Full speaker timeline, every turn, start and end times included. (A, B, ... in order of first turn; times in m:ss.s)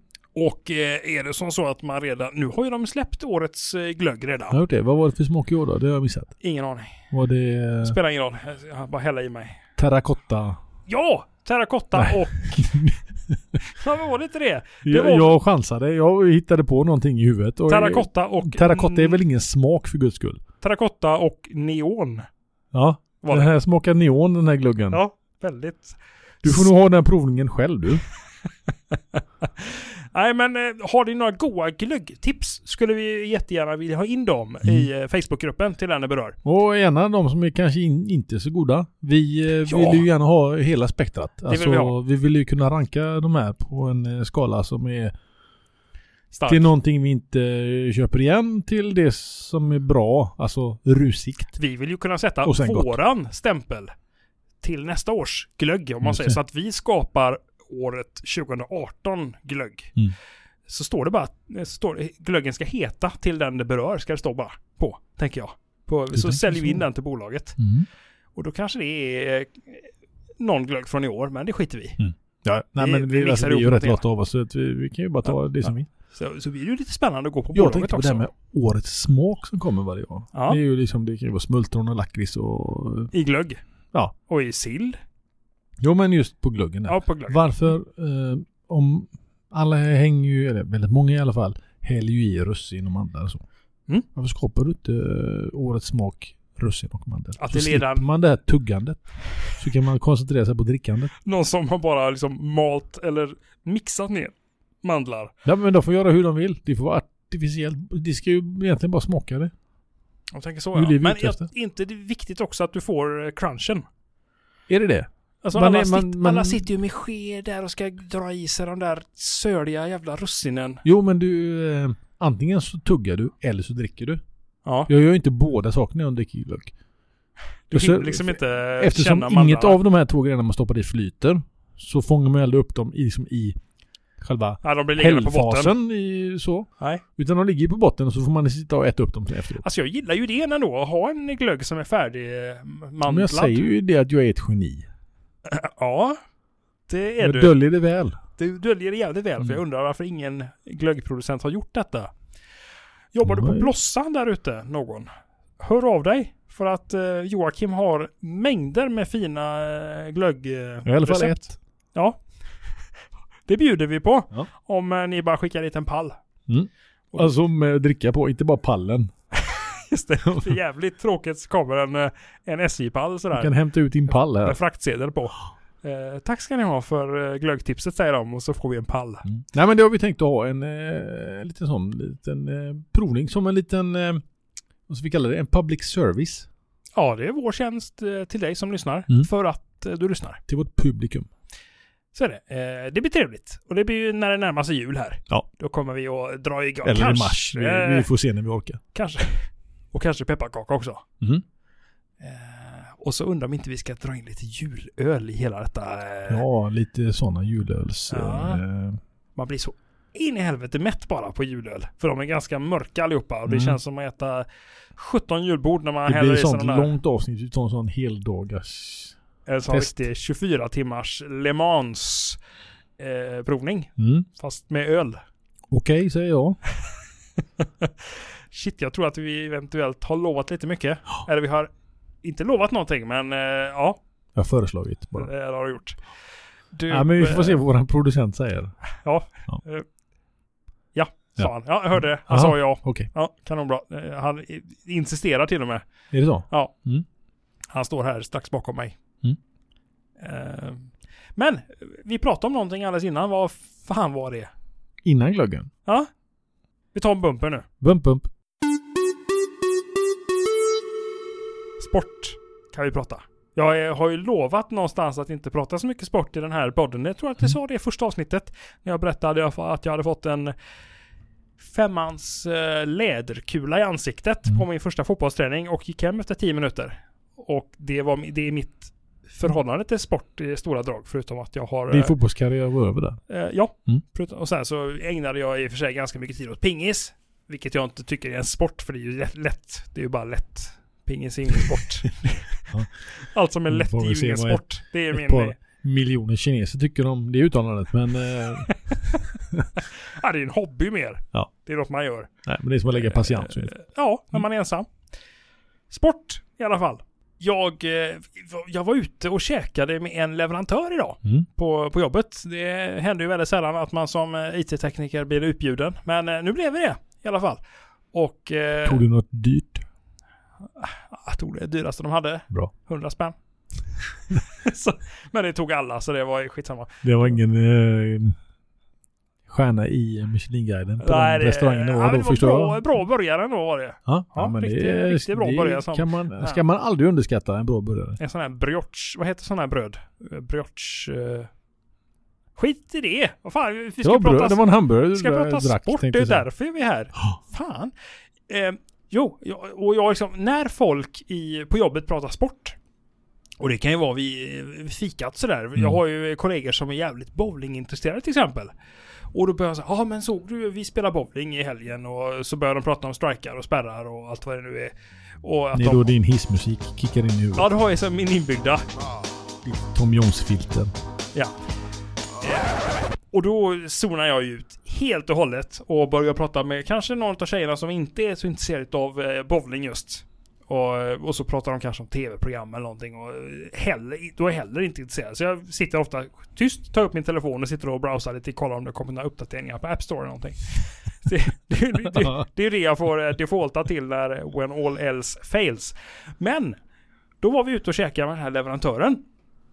0:00.4-0:04.6 A
0:04.5-0:06.3 B
0:06.4-0:07.0 A
0:07.1-0:08.0 B
0:07.8-0:09.6 A
0:09.8-0:10.6 B
0:10.9-0:12.7 A
0:11.9-0:13.6 B
0:13.6-0:15.4 A
0:14.8-0:20.4 B
0:17.7-0:19.2 A
0:20.6-0:22.3 A
0:22.7-0:25.0 B
0:23.2-0:23.5 A
0:24.9-0:26.7 A
0:26.4-0:28.0 B
0:29.2-0:36.4 A
0:36.4-0:45.1 B
0:39.7-0:40.0 A
0:41.5-0:42.0 A
0:46.3-0:46.7 A
0:46.5-0:51.5 B
0:51.6-0:53.9 A
0:52.4-0:52.9 B
0:54.6-1:00.0 A
0:56.0-0:56.4 B
1:00.7-1:07.6 A
1:06.1-1:06.8 B
1:07.6-1:07.9 B
1:08.4-1:09.9 A
1:10.4-1:12.0 A
1:12.0-1:15.9 B
1:12.8-1:14.0 A
1:15.3-1:18.3 A
1:17.6-1:23.1 B
1:20.3-1:20.6 A
1:23.1-1:23.6 A
1:24.3-1:25.0 A
1:25.8-1:33.4 B
1:26.9-1:27.4 A
1:34.2-1:41.1 B
1:37.4-1:38.1 A
1:41.2-1:45.3 A
1:45.4-1:49.5 B
1:50.3-1:53.9 A
1:50.8-1:51.5 B
1:54.7-1:56.7 B
1:55.4-2:00.8 A
2:00.8-2:04.2 B
2:04.9-2:06.7 B
2:07.7-2:09.8 A
2:07.7-2:13.6 B
2:14.2-2:19.6 B
2:14.6-2:15.7 A
2:19.6-2:23.7 A
2:23.1-2:24.9 B
2:25.5-2:26.2 A
2:26.9-2:27.5 A
2:27.2-2:28.2 B
2:28.4-2:32.1 A
2:33.1-2:35.1 A
2:33.2-2:33.7 B
2:35.6-2:41.4 A
2:40.9-2:41.6 B
2:42.0-2:42.2 A
2:43.5-2:46.2 A
2:46.5-2:49.1 B
2:49.4-2:53.5 A
2:53.3-2:54.6 B
2:54.4-2:59.3 A
2:59.3-3:04.2 B
3:04.9-3:06.5 B
3:07.0-3:10.4 A
3:10.5-3:11.3 B
3:12.1-3:18.1 A
3:16.8-3:18.8 B
3:18.9-3:21.0 A
3:22.2-3:26.4 A
3:26.3-3:29.0 B
3:28.1-3:28.6 A
3:29.4-3:36.9 A
3:33.5-3:33.8 B
3:36.1-3:39.2 B
3:39.5-3:42.4 A
3:39.7-3:40.0 B
3:43.0-3:45.2 A
3:44.0-3:44.3 B
3:45.7-3:46.6 B
3:47.6-3:51.7 A
3:52.2-3:54.0 A
3:54.4-3:55.3 B
3:55.2-3:56.0 A
3:56.7-3:57.6 A
3:56.9-3:58.7 B
3:59.0-3:59.9 A
4:00.9-4:05.8 A
4:01.4-4:03.1 B
4:06.1-4:07.0 B
4:07.7-4:09.0 A
4:10.2-4:14.5 A
4:15.0-4:15.7 B
4:16.9-4:17.7 A
4:17.8-4:18.3 B
4:21.8-4:30.5 A
4:31.6-4:42.2 A
4:41.9-4:43.2 B
4:43.3-4:55.6 A
4:53.7-4:58.7 B
4:58.7-4:59.2 A
5:00.0-5:02.3 A
5:02.4-5:03.8 B
5:03.0-5:04.9 A
5:05.9-5:17.6 A
5:18.1-5:19.0 A
5:18.8-5:19.8 B
5:20.8-5:23.4 A
5:24.4-5:27.3 A
5:27.0-5:28.4 B
5:29.5-5:32.8 B
5:31.0-5:36.6 A
5:34.1-5:38.2 B
5:38.2-5:41.5 A
5:42.6-5:47.9 A
5:44.0-5:46.5 B
5:48.5-5:52.8 A
5:53.6-5:58.7 A
5:59.3-6:06.2 A
6:05.7-6:07.7 B
6:07.6-6:08.9 A
6:09.7-6:10.9 B
6:12.4-6:12.8 A
6:13.3-6:36.8 A
6:37.4-6:39.2 A